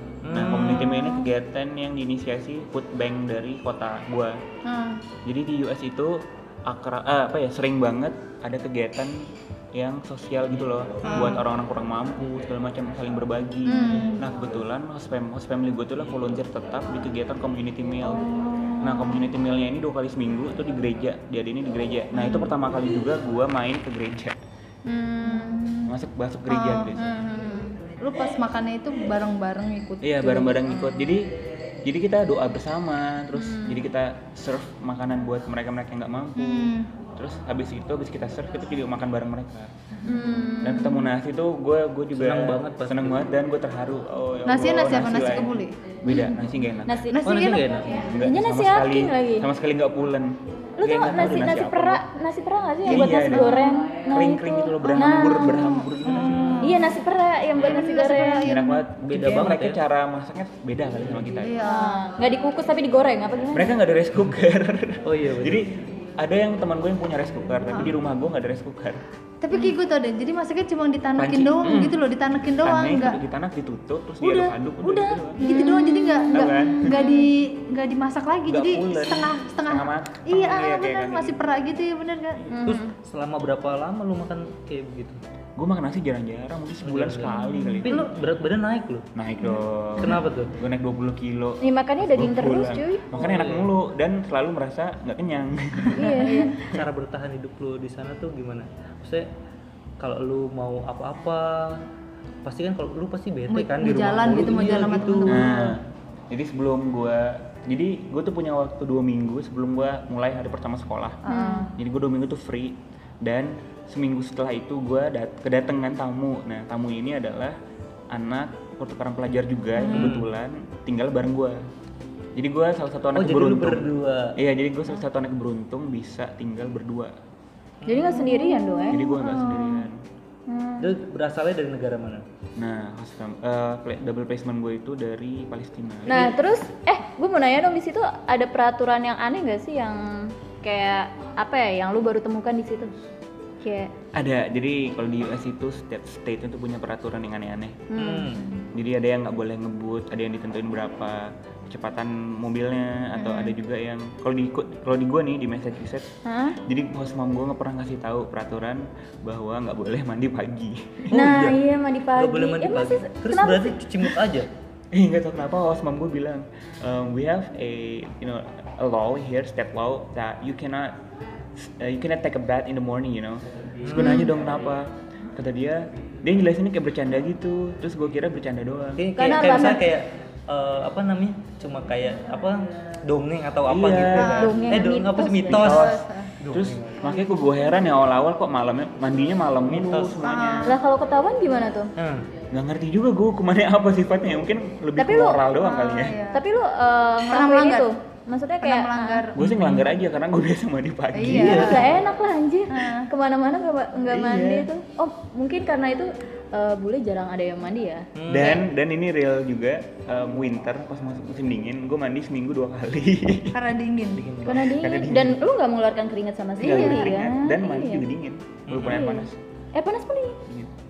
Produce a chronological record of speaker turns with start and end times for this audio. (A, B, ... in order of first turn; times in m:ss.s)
0:00.2-0:01.2 A
0:00.3-0:04.4 B
0:04.6-0:05.0 C
0:05.2-0:18.2 B
0:11.0-0:11.4 C
0:11.1-0:11.4 A
0:13.7-0:14.2 C
0:18.1-0:19.2 C
0:18.8-0:24.4 B
0:22.2-0:22.5 C
0:24.9-0:25.7 D
0:25.2-0:25.9 C
0:25.9-0:27.0 B
0:26.5-0:26.9 C
0:27.0-0:27.8 D
0:28.0-0:30.7 C
0:30.0-0:31.3 B
0:31.8-0:39.7 B
0:33.3-0:33.8 D
0:36.4-0:36.9 C
0:40.0-0:41.1 D
0:40.6-0:47.1 B
0:42.1-0:43.2 A
0:44.5-0:45.8 C
0:46.1-0:46.4 D
0:46.9-0:49.5 D
0:47.1-0:48.1 C
0:47.2-0:48.1 A
0:48.1-0:52.0 B
0:50.8-0:55.7 D
0:52.8-0:56.6 B
0:53.0-0:53.9 C
0:54.8-0:56.9 C
0:56.2-0:56.6 A
0:56.6-0:58.6 D
0:57.6-0:58.8 C
0:58.4-1:01.6 B
0:59.0-0:59.8 A
1:01.4-1:02.1 C
1:01.6-1:03.8 D
1:03.5-1:09.0 B
1:05.0-1:05.6 A
1:09.4-1:13.2 C
1:11.2-1:12.0 B
1:12.6-1:15.4 B
1:14.2-1:22.4 C
1:15.4-1:17.3 D
1:16.3-1:17.0 B
1:18.5-1:21.4 B
1:22.5-1:22.9 D
1:22.6-1:25.2 A
1:25.6-1:27.9 B
1:26.8-1:29.1 A
1:27.3-1:27.9 D
1:29.1-1:36.1 B
1:30.0-1:30.5 A
1:31.6-1:33.1 D
1:33.1-1:33.7 A
1:35.9-1:36.6 C
1:36.0-1:36.7 D
1:36.6-1:39.3 A
1:40.0-1:41.8 A
1:42.4-1:45.5 A
1:43.5-1:45.8 C
1:45.3-1:51.2 B
1:51.3-1:51.7 C
1:51.3-1:51.7 D
1:51.8-1:57.6 B
1:58.1-2:01.6 B
1:59.8-2:00.2 C
1:59.9-2:00.3 A
2:02.4-2:07.2 B
2:03.2-2:04.4 A
2:07.8-2:08.3 A
2:07.9-2:09.0 D
2:08.2-2:09.9 C
2:08.9-2:10.0 B
2:10.5-2:11.0 D
2:10.8-2:12.2 A
2:12.6-2:16.2 B
2:16.1-2:22.9 D
2:16.1-2:16.3 A
2:23.6-2:23.9 D
2:24.1-2:27.8 B
2:27.9-2:28.4 D
2:28.0-2:28.5 A
2:28.7-2:36.1 B
2:33.2-2:33.5 C
2:36.3-2:36.6 D
2:36.6-2:41.6 B
2:41.1-2:44.2 D
2:42.2-2:44.5 A
2:44.9-2:51.0 B
2:51.6-2:59.0 B
2:53.8-2:54.3 A
2:54.0-2:54.3 D
2:59.0-3:07.1 A
2:59.2-2:59.9 D
3:03.7-3:04.5 B
3:04.1-3:04.8 C
3:04.3-3:05.8 D
3:05.5-3:10.8 B
3:05.5-3:06.3 C
3:09.7-3:10.1 A
3:10.2-3:10.8 C
3:10.6-3:11.9 D
3:12.0-3:12.3 A
3:12.5-3:16.2 B
3:15.0-3:15.7 D
3:15.6-3:16.4 C
3:16.3-3:19.3 D
3:17.3-3:17.9 C
3:18.6-3:19.8 C
3:19.4-3:21.8 B
3:21.1-3:21.9 C
3:21.3-3:21.8 A
3:21.4-3:28.1 D
3:22.7-3:23.1 C
3:24.1-3:24.7 B
3:28.2-3:28.6 A
3:28.3-3:33.6 B
3:33.5-3:34.2 C
3:34.2-3:34.7 A
3:34.4-3:35.4 B
3:34.4-3:38.0 D
3:36.6-3:37.1 C
3:36.6-3:39.4 B
3:38.7-3:39.1 A
3:38.8-3:40.4 D
3:40.5-3:40.7 B